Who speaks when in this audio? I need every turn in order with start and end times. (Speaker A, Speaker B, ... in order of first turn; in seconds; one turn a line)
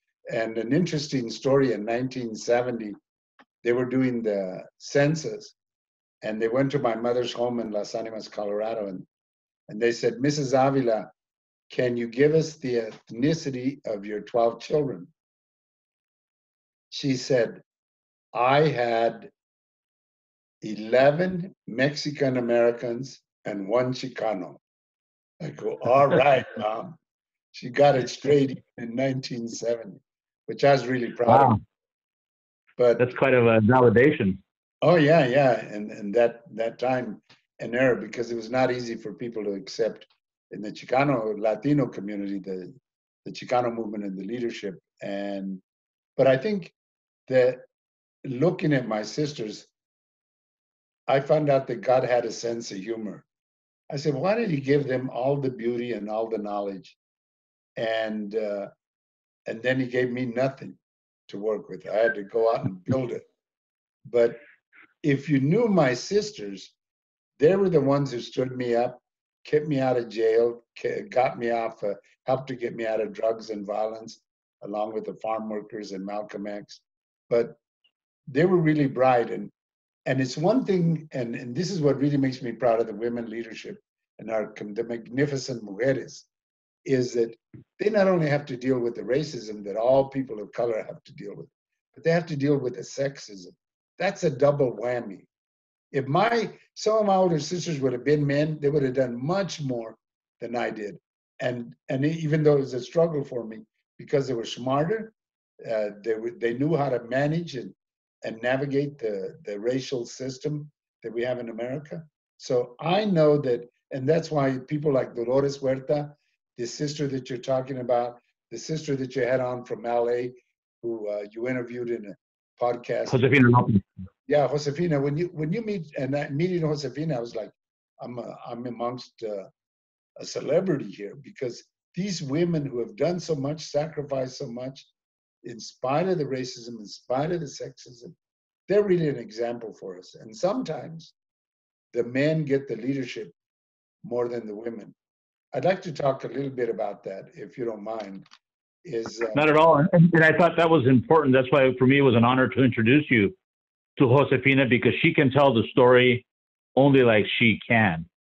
Speaker A: 0.3-3.0
Speaker A: 3.6-5.5
Speaker A: 6.2-9.1
Speaker A: 9.7-11.1
Speaker A: 11.7-15.1
Speaker A: 16.9-17.6
Speaker A: 18.3-19.3
Speaker A: 20.6-24.6
Speaker A: 25.4-27.0
Speaker A: 27.5-31.6
Speaker B: 31.3-31.6
Speaker A: 32.8-33.1
Speaker B: 33.0-34.4
Speaker A: 34.8-45.6
Speaker A: 46.2-46.7
Speaker A: 47.3-47.7
Speaker A: 48.2-49.7
Speaker A: 51.1-53.2
Speaker A: 53.9-57.0
Speaker A: 57.8-58.7
Speaker A: 59.5-63.2
Speaker A: 64.0-64.4
Speaker A: 65.0-66.7
Speaker A: 67.4-77.6
Speaker A: 78.3-79.5
Speaker A: 80.0-86.3
Speaker A: 86.8-95.3
Speaker A: 95.9-123.2
Speaker B: 123.1-123.8
Speaker A: 124.3-129.5
Speaker A: 130.2-134.9
Speaker A: 135.4-138.1
Speaker A: 138.7-141.1
Speaker A: 141.9-143.3
Speaker A: 144.0-144.9
Speaker A: 145.5-148.2
Speaker A: 148.8-149.4
Speaker B: 149.3-153.3
Speaker B: 154.0-158.1